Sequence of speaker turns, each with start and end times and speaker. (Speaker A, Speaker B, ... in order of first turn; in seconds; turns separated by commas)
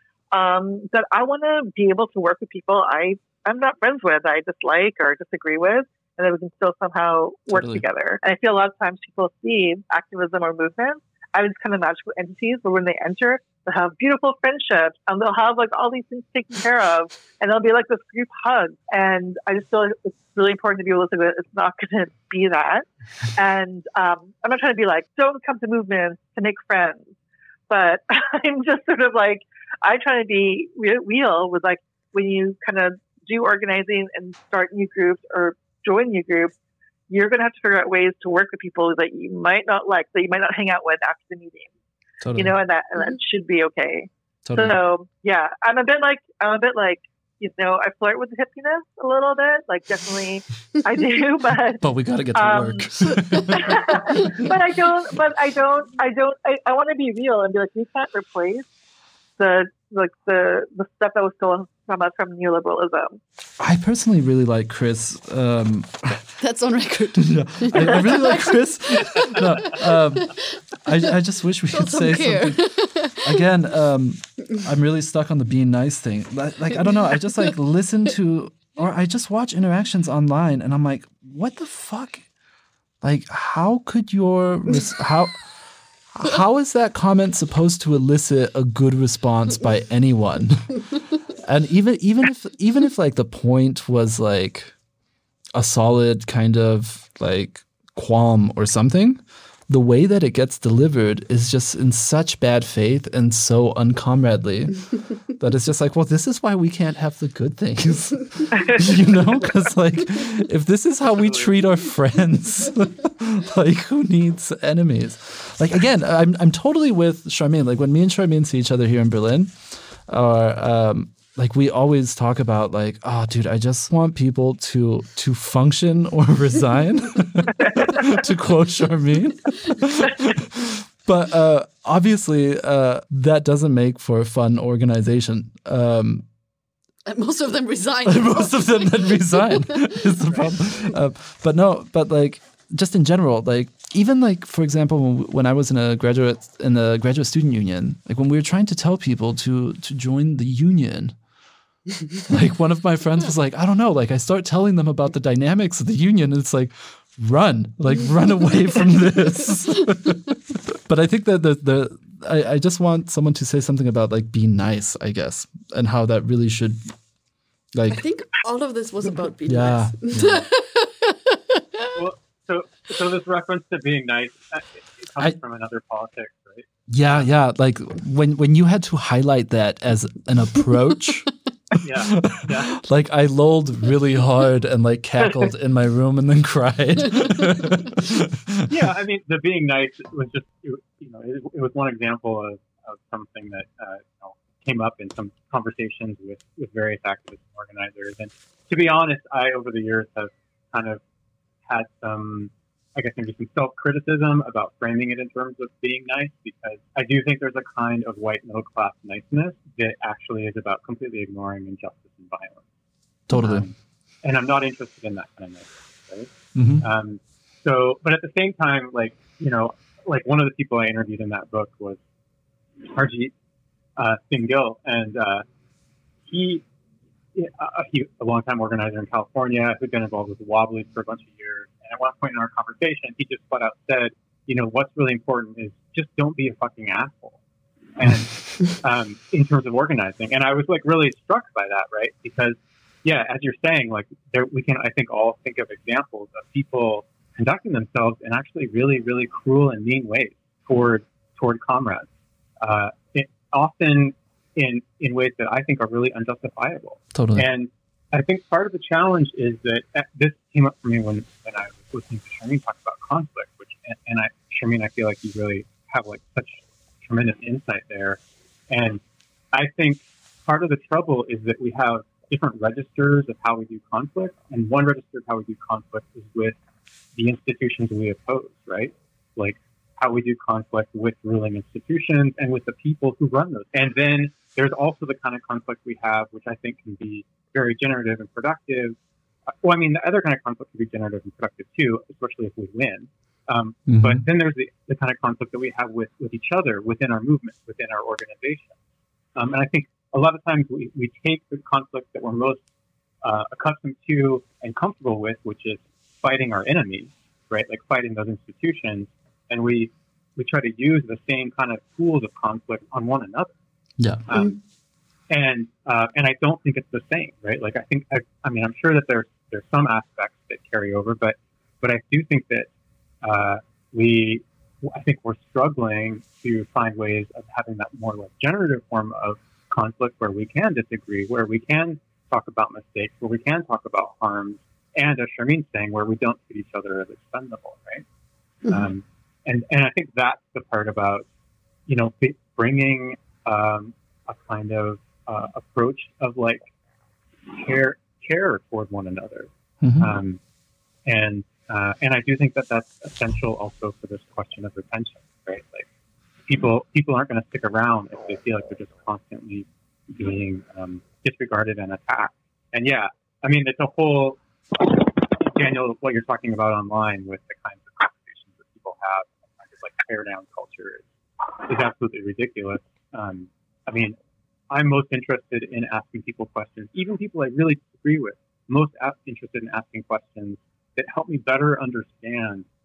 Speaker A: 0.3-27.1, Speaker B: 7.5-7.8, Speaker A: 27.7-36.5, Speaker A: 37.1-41.7, Speaker B: 42.2-42.5, Speaker A: 42.4-51.8, Speaker B: 44.4-44.8, Speaker B: 51.8-54.4, Speaker A: 52.3-58.7, Speaker A: 59.4-63.2, Speaker B: 63.6-66.4, Speaker C: 66.4-70.4, Speaker B: 67.1-82.2, Speaker C: 71.7-73.4, Speaker B: 83.0-85.5, Speaker B: 86.1-94.7, Speaker B: 95.5-136.2, Speaker D: 111.2-111.5, Speaker C: 137.1-140.9, Speaker B: 138.1-151.2, Speaker D: 140.3-140.6, Speaker B: 152.2-166.9, Speaker B: 167.7-168.0, Speaker C: 167.9-171.9, Speaker B: 169.5-170.4, Speaker D: 171.9-177.3, Speaker B: 176.9-188.7, Speaker D: 181.8-182.8, Speaker D: 188.7-201.0, Speaker D: 201.7-212.7, Speaker B: 213.3-213.7, Speaker D: 213.3-222.0, Speaker B: 216.5-216.9, Speaker D: 222.8-223.3, Speaker D: 224.0-225.4, Speaker D: 226.2-226.6, Speaker D: 227.3-237.4, Speaker D: 237.9-252.1, Speaker D: 252.6-268.2, Speaker B: 257.1-257.5, Speaker D: 268.7-269.0, Speaker D: 269.5-276.6, Speaker D: 277.1-289.0, Speaker D: 289.6-298.8, Speaker B: 293.9-294.2, Speaker D: 299.3-302.6, Speaker D: 303.2-313.5, Speaker D: 314.3-314.6, Speaker D: 315.3-322.7, Speaker D: 323.2-338.0, Speaker D: 338.7-341.2, Speaker D: 341.9-346.6, Speaker D: 347.5-350.4, Speaker B: 349.8-350.1, Speaker D: 351.1-355.9, Speaker D: 356.4-371.1, Speaker D: 371.6-374.1, Speaker D: 374.7-382.6